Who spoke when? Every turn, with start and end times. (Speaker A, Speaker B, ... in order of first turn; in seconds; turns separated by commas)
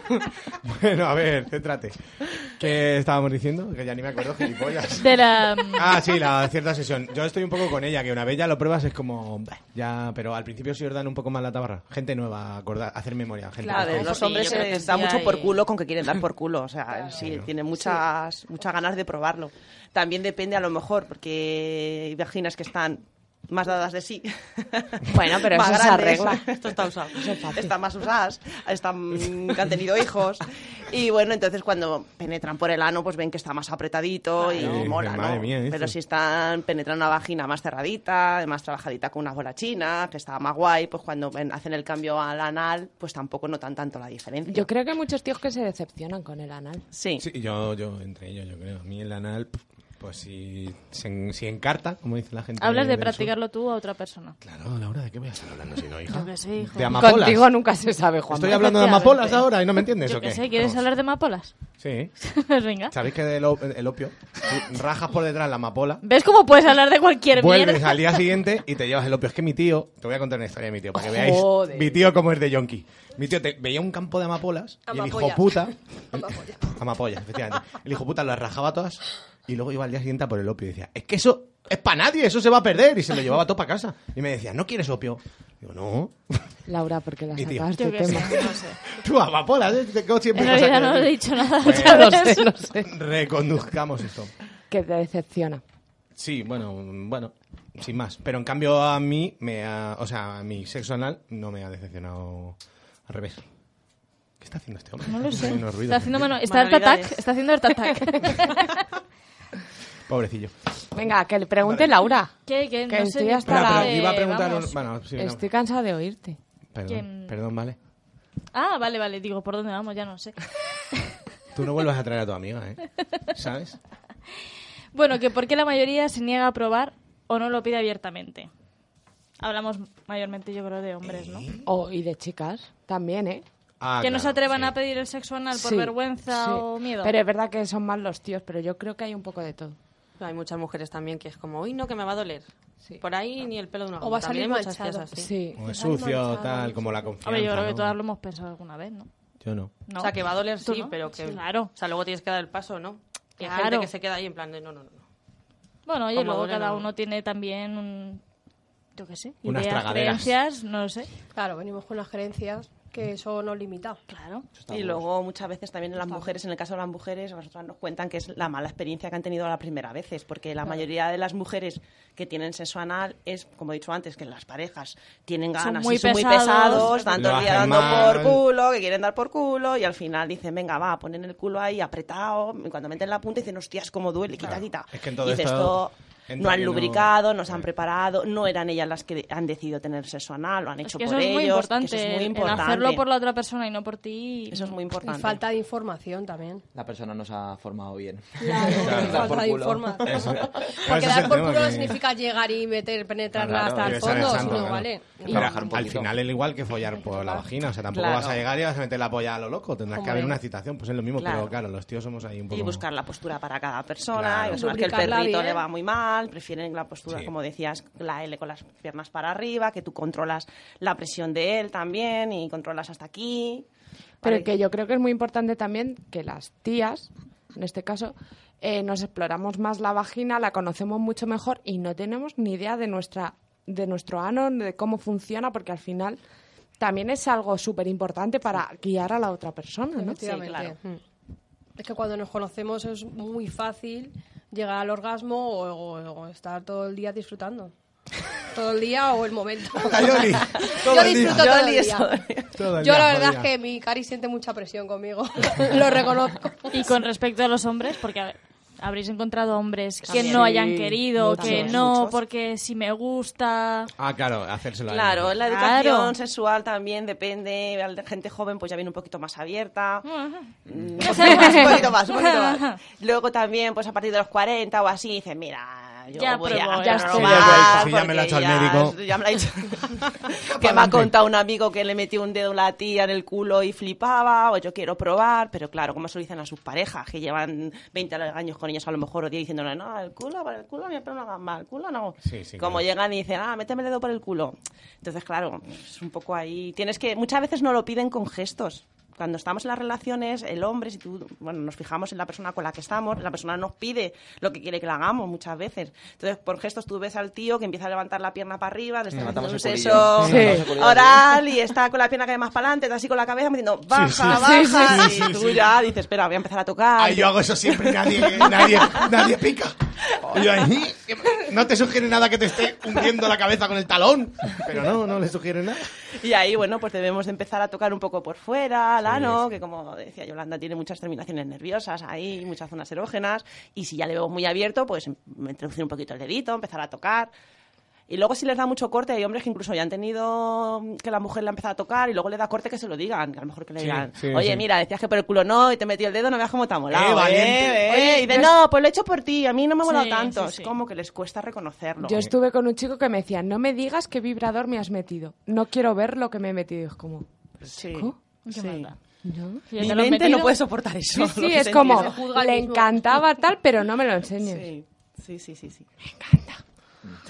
Speaker A: 0.5-5.2, Speaker B: 5.0-6.0, Speaker A: 5.7-14.2, Speaker C: 13.6-15.6, Speaker D: 13.7-44.7, Speaker A: 17.2-17.5, Speaker E: 25.1-26.5, Speaker C: 26.6-27.1, Speaker E: 27.2-27.7, Speaker A: 34.6-36.0, Speaker E: 44.5-46.8, Speaker D: 46.9-47.2, Speaker A: 47.2-53.3, Speaker B: 52.6-54.4, Speaker A: 54.4-57.5, Speaker B: 56.1-57.0, Speaker E: 56.9-59.2, Speaker A: 58.3-60.8, Speaker B: 58.7-59.4, Speaker B: 59.9-61.5, Speaker A: 61.8-62.1, Speaker B: 62.2-62.9, Speaker A: 62.9-66.0, Speaker B: 66.0-68.3, Speaker A: 67.3-86.5, Speaker E: 71.0-72.0, Speaker F: 74.9-76.7, Speaker E: 86.7-88.5, Speaker A: 87.3-92.3, Speaker B: 87.8-88.8, Speaker B: 90.3-92.5, Speaker E: 91.7-92.9, Speaker A: 92.8-94.3, Speaker E: 94.7-95.6, Speaker A: 96.2-103.4, Speaker A: 104.4-106.3, Speaker B: 105.1-108.8, Speaker C: 106.5-107.2, Speaker A: 110.1-110.5, Speaker E: 110.9-112.3, Speaker A: 111.6-111.9, Speaker B: 112.5-114.8, Speaker E: 112.9-114.0, Speaker A: 113.5-115.5, Speaker E: 115.2-116.4, Speaker A: 116.7-117.8, Speaker B: 116.9-117.3, Speaker B: 118.5-120.4, Speaker A: 121.5-123.8, Speaker B: 124.9-128.5, Speaker B: 129.4-131.5, Speaker A: 131.0-131.6, Speaker E: 131.7-133.4, Speaker A: 133.8-134.7, Speaker B: 134.0-137.1, Speaker E: 135.6-139.8, Speaker C: 140.2-142.5, Speaker C: 143.0-145.3, Speaker F: 144.0-147.1, Speaker E: 145.2-145.6, Speaker A: 145.6-148.0, Speaker B: 147.2-149.1, Speaker A: 149.4-149.7, Speaker B: 149.9-151.7, Speaker C: 150.0-155.1, Speaker B: 153.4-153.9, Speaker B: 155.9-158.2, Speaker C: 156.1-156.9, Speaker B: 159.0-161.1, Speaker A: 159.4-160.3, Speaker F: 161.3-164.0, Speaker B: 164.1-164.5, Speaker G: 164.6-165.1, Speaker D: 164.7-193.0, Speaker B: 175.6-178.1, Speaker A: 177.2-178.4, Speaker A: 184.4-187.6, Speaker B: 190.8-194.8, Speaker D: 194.5-195.4, Speaker F: 195.1-196.6, Speaker G: 196.7-200.3, Speaker F: 198.4-205.6, Speaker A: 198.8-199.4, Speaker A: 200.0-202.0, Speaker G: 203.3-206.2, Speaker A: 203.3-212.8, Speaker F: 207.1-207.4, Speaker D: 207.9-208.4, Speaker F: 209.9-210.4, Speaker D: 211.2-211.6, Speaker D: 212.5-223.7, Speaker A: 214.1-214.7, Speaker F: 214.5-215.6, Speaker D: 224.2-224.5, Speaker E: 224.2-236.2, Speaker E: 236.8-240.2, Speaker F: 240.0-240.8, Speaker D: 240.2-240.8, Speaker F: 241.8-247.7, Speaker F: 248.5-252.1, Speaker A: 249.8-251.6, Speaker D: 250.6-252.6, Speaker A: 252.6-253.5, Speaker F: 252.7-256.9, Speaker B: 256.7-263.9, Speaker D: 260.1-260.6, Speaker E: 260.1-261.9, Speaker D: 261.4-262.2, Speaker A: 264.0-265.3, Speaker D: 264.9-270.1, Speaker B: 265.5-266.1, Speaker B: 270.1-270.5, Speaker D: 270.7-319.1, Speaker B: 271.0-272.8, Speaker B: 276.2-277.8, Speaker E: 276.8-277.9, Speaker A: 277.1-279.0, Speaker A: 280.5-281.1, Speaker A: 292.2-292.8, Speaker G: 309.2-311.5, Speaker A: 310.1-310.6, Speaker E: 310.2-310.6, Speaker A: 313.9-315.7, Speaker E: 314.3-315.1, Speaker A: 317.0-325.9, Speaker D: 326.1-337.3, Speaker A: 329.0-329.5, Speaker D: 338.1-352.3, Speaker A: 343.8-344.6, Speaker A: 346.9-348.1, Speaker F: 347.9-348.5, Speaker B: 349.8-350.7, Speaker E: 352.0-358.2, Speaker D: 357.7-358.9, Speaker B: 358.5-359.0, Speaker E: 359.2-359.6, Speaker B: 359.7-360.6, Speaker D: 359.8-362.2, Speaker E: 361.1-364.7, Speaker F: 361.6-363.2, Speaker D: 364.4-365.9, Speaker E: 366.1-366.6